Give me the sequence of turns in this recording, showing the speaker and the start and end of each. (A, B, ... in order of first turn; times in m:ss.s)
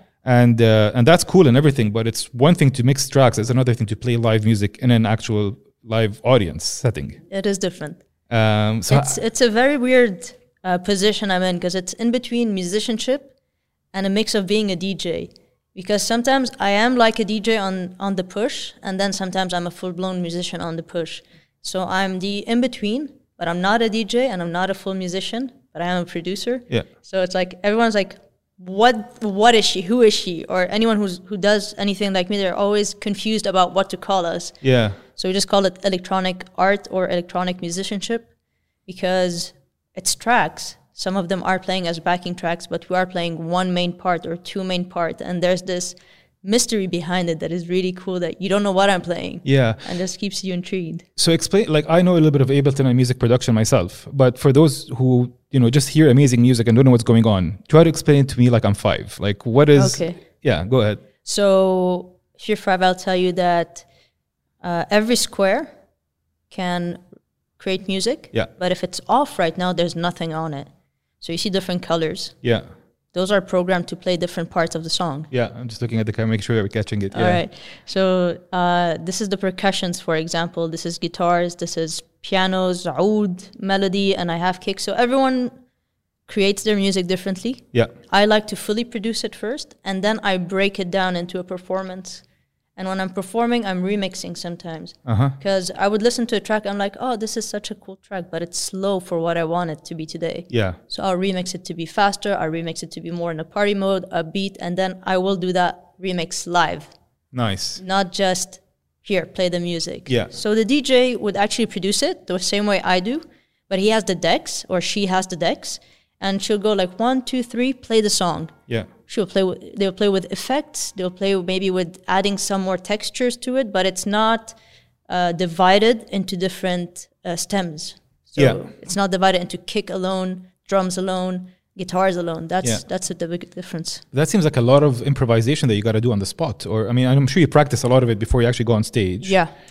0:00.2-0:07.2 A
0:07.3-0:08.0 B
0:08.3-0:09.2 A
0:08.9-0:13.3 B
0:13.9-0:34.6 B
0:34.6-0:35.0 A
0:35.1-0:38.3 B
0:38.8-0:51.0 B
0:49.4-0:49.8 A
0:51.2-1:01.0 A
0:59.8-1:00.2 B
1:01.2-1:03.8 B
1:04.6-1:05.7 B
1:06.5-1:07.0 B
1:07.6-1:10.7 B
1:11.2-1:12.3 B
1:13.1-1:15.3 B
1:15.3-1:17.4 A
1:17.1-1:25.5 B
1:26.3-1:32.2 B
1:32.8-1:46.9 B
1:35.0-1:35.4 A
1:40.5-1:40.8 A
1:47.3-1:47.8 A
1:47.8-1:58.5 B
1:50.1-1:50.3 A
1:59.1-2:04.6 B
2:05.1-2:14.0 B
2:08.4-2:08.6 A
2:14.1-2:19.4 A
2:19.2-2:19.5 B